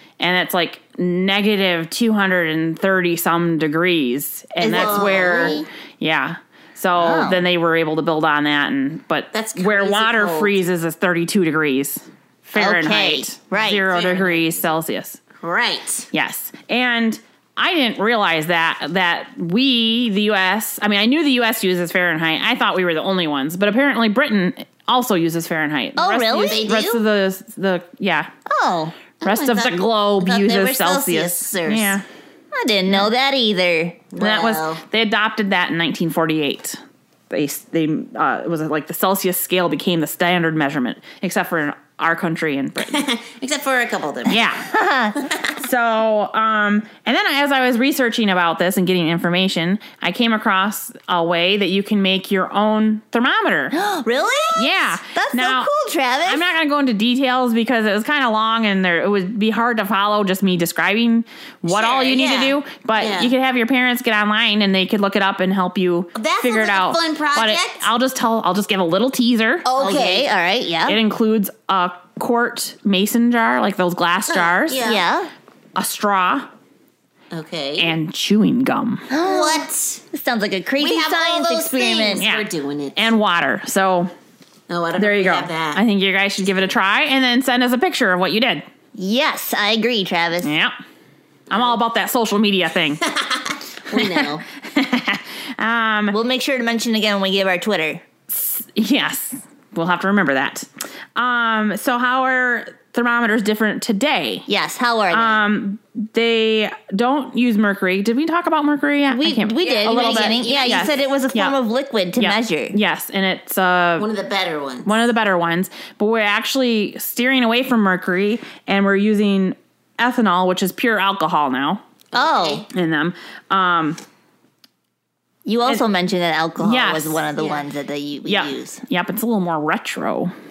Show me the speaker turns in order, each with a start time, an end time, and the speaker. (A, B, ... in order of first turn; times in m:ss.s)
0:00.2-0:15.2 A
0:04.6-0:05.7 B
0:04.6-0:05.7 C
0:07.0-0:07.4 B
0:09.3-0:10.6 C
0:12.5-0:13.8 B
0:13.9-0:14.7 C
0:15.4-0:16.1 C
0:16.1-0:28.3 A
0:26.0-0:27.0 B
0:26.4-0:26.9 C
0:28.5-0:29.0 B
0:29.2-0:32.0 C
0:29.2-0:32.0 A
0:32.5-0:34.1 B
0:34.1-0:34.8 C
0:34.3-0:36.8 A
0:37.3-0:43.0 A
0:42.8-0:44.4 C
0:44.3-0:45.2 B
0:44.3-0:44.6 A
0:45.6-0:53.7 A
0:53.7-0:56.5 B
0:54.5-0:55.7 A
0:56.2-1:01.2 A
1:01.6-1:03.3 C
1:02.0-1:09.6 A
1:06.1-1:07.9 C
1:09.6-1:10.3 C
1:09.8-1:11.0 B
1:10.8-1:14.8 A
1:14.3-1:15.1 C
1:14.8-1:15.3 B
1:15.8-1:16.5 A
1:17.3-1:17.9 C
1:17.8-1:19.1 A
1:19.1-1:22.2 B
1:19.2-1:20.0 C
1:20.8-1:23.1 C
1:23.0-1:24.1 A
1:24.7-1:25.8 C
1:25.0-1:28.6 A
1:29.0-1:30.5 B
1:30.4-1:30.7 A
1:31.5-1:31.8 C
1:31.5-1:33.0 A
1:33.1-1:34.4 C
1:34.0-1:36.2 A
1:36.1-1:38.0 B
1:38.3-1:44.4 A
1:44.5-1:45.4 B
1:45.1-1:51.6 A
1:49.1-1:52.8 B
1:49.6-1:51.2 C
1:52.2-1:54.1 A
1:54.0-1:55.0 C
1:54.9-2:01.8 A
2:02.1-2:02.7 C
2:02.1-2:02.7 B
2:02.7-2:04.0 A
2:05.4-2:08.8 B
2:06.6-2:07.2 A
2:07.4-2:07.6 C
2:08.3-2:10.3 A